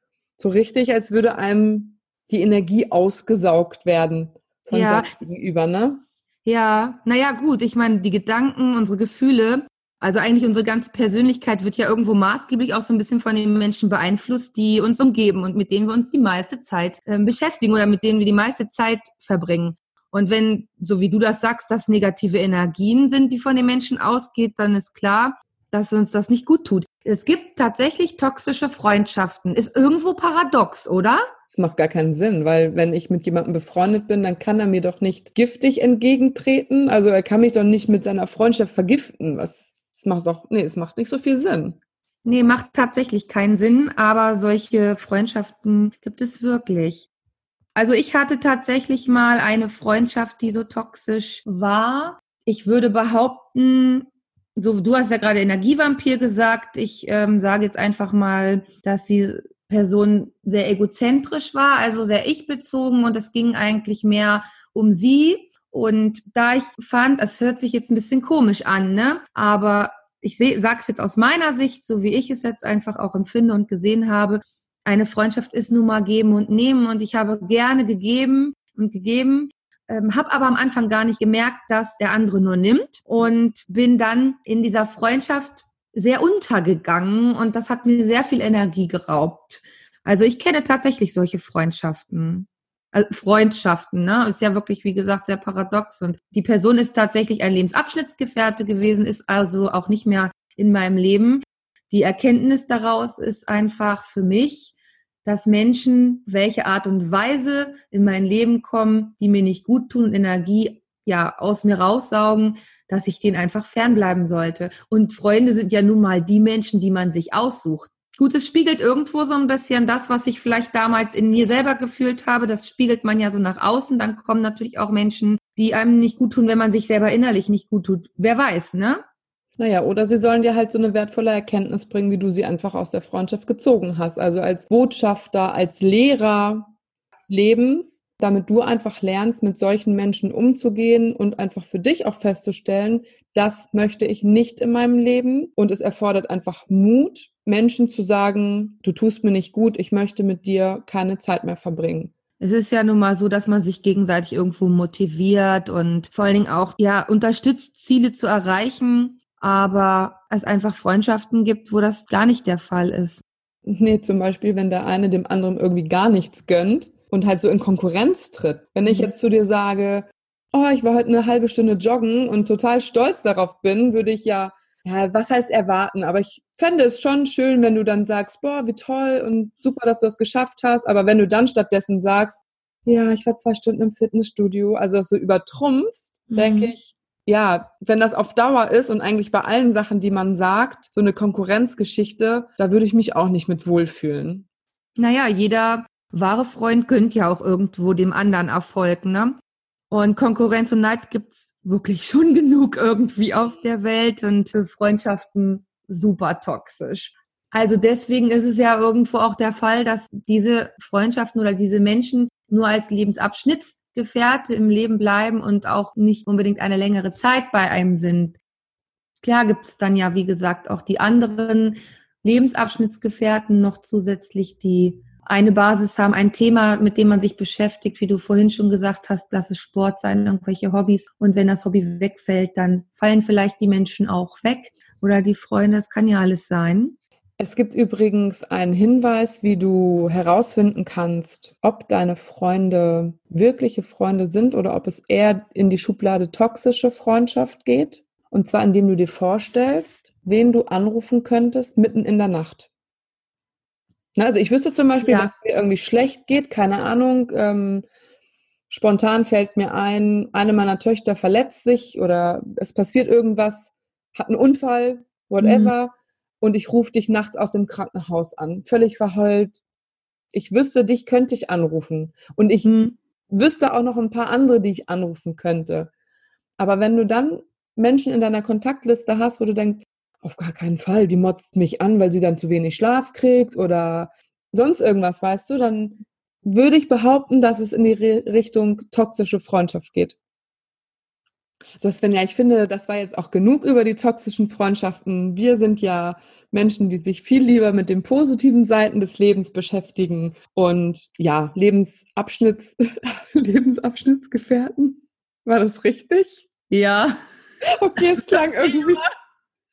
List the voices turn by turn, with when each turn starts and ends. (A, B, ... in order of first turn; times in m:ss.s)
0:00.4-0:06.0 A
0:04.7-0:05.1 B
0:06.4-0:31.3 B
0:31.5-0:41.8 A
0:42.2-0:47.1 B
0:47.7-1:44.7 B
1:45.2-2:09.0 B
2:09.6-2:32.1 A
2:32.4-2:43.2 B
2:43.6-3:14.5 A
2:48.8-2:49.1 B
3:06.3-3:06.7 B
3:15.0-3:19.4 B
3:19.9-3:38.4 B
3:39.2-3:57.0 B
3:57.4-4:12.7 A
4:14.2-4:17.8 A
4:15.0-4:15.3 B
4:18.7-4:29.6 A
4:25.4-4:25.7 B
4:30.3-4:32.7 A
4:32.6-4:32.9 B
4:33.3-4:35.9 A
4:36.6-4:50.2 A
4:51.8-5:06.5 A
5:06.7-5:07.2 B
5:07.7-5:09.0 A
5:08.0-5:09.0 B